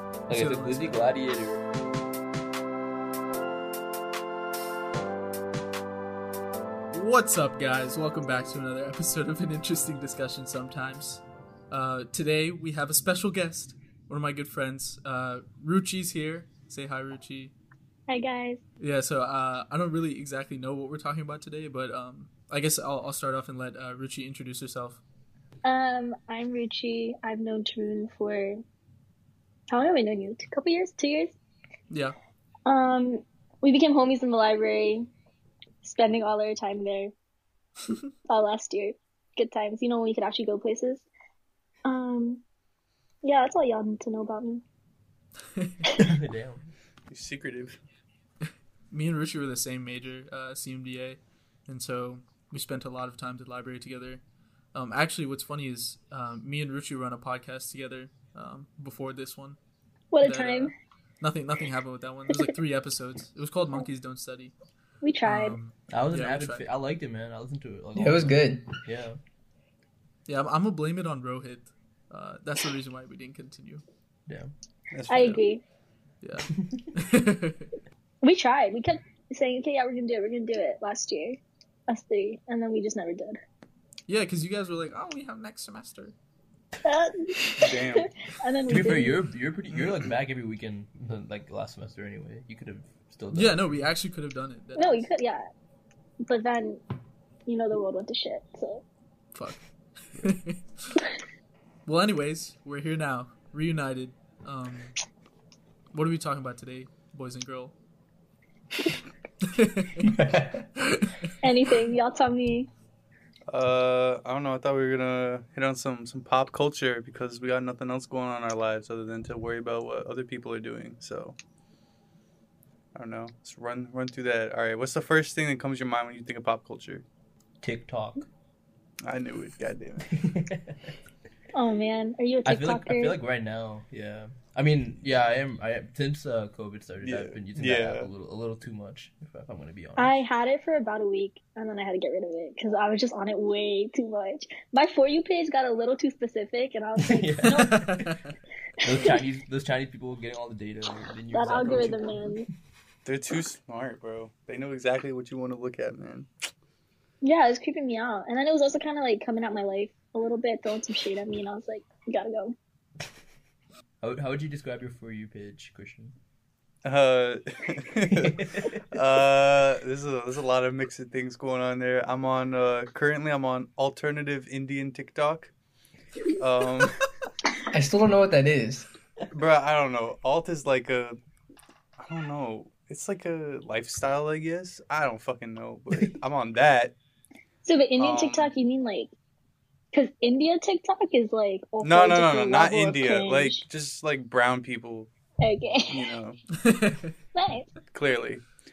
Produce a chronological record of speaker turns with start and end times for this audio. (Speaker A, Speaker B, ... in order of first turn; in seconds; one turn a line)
Speaker A: 0.3-1.1
Speaker B: 0.3-1.6
Speaker A: 6.9-17.5
Speaker C: 18.1-18.6
Speaker A: 18.8-25.0
Speaker C: 25.6-28.6
Speaker C: 29.7-31.4
Speaker A: 31.9-32.2
Speaker C: 32.7-35.1
Speaker C: 35.8-37.1
Speaker C: 38.3-41.1
Speaker C: 41.9-42.4
Speaker C: 43.2-44.6
Speaker A: 45.5-45.9
Speaker B: 46.0-46.7
Speaker D: 47.1-47.8
Speaker A: 48.5-54.2
Speaker A: 54.7-59.6
Speaker C: 60.1-60.7
Speaker A: 60.2-64.5
Speaker C: 65.0-65.6
Speaker A: 65.2-66.7
Speaker B: 65.9-69.2
Speaker E: 68.0-68.6
Speaker A: 70.3-73.8
Speaker D: 74.9-75.4
Speaker C: 75.1-75.6
Speaker A: 76.2-77.7
Speaker C: 78.2-83.4
Speaker A: 84.1-86.2
Speaker C: 86.8-89.2
Speaker D: 87.6-88.1
Speaker B: 88.7-93.8
Speaker D: 89.7-90.1
Speaker A: 93.3-95.1
Speaker C: 94.8-95.4
Speaker C: 96.2-96.8
Speaker C: 97.5-98.8
Speaker A: 99.3-101.0
Speaker A: 101.9-105.0
Speaker A: 105.9-107.8
Speaker A: 109.4-110.2
Speaker E: 110.0-110.7
Speaker A: 110.8-111.3
Speaker C: 111.4-112.7
Speaker D: 113.5-121.4
Speaker D: 123.0-127.0
Speaker B: 127.6-128.3
Speaker D: 129.0-130.2
Speaker B: 130.1-130.9
Speaker C: 131.5-133.2
Speaker B: 132.5-140.2
Speaker D: 137.0-138.1
Speaker C: 140.0-147.8
Speaker B: 147.0-148.2
Speaker A: 147.5-148.4
Speaker B: 148.8-152.4
Speaker C: 148.9-149.2
Speaker C: 151.3-152.5
Speaker D: 151.6-151.9
Speaker D: 153.1-156.3
Speaker C: 157.2-162.6
Speaker B: 164.0-166.2
Speaker D: 166.8-175.5
Speaker B: 168.2-168.8
Speaker D: 176.4-177.1
Speaker E: 177.7-178.9
Speaker D: 179.3-181.2
Speaker D: 182.0-186.9
Speaker C: 187.6-189.1
Speaker D: 188.0-188.5
Speaker C: 189.9-193.6
Speaker D: 191.8-195.1
Speaker C: 195.4-196.1
Speaker D: 195.9-196.4
Speaker A: 196.5-197.2
Speaker C: 197.3-197.7
Speaker D: 197.9-198.4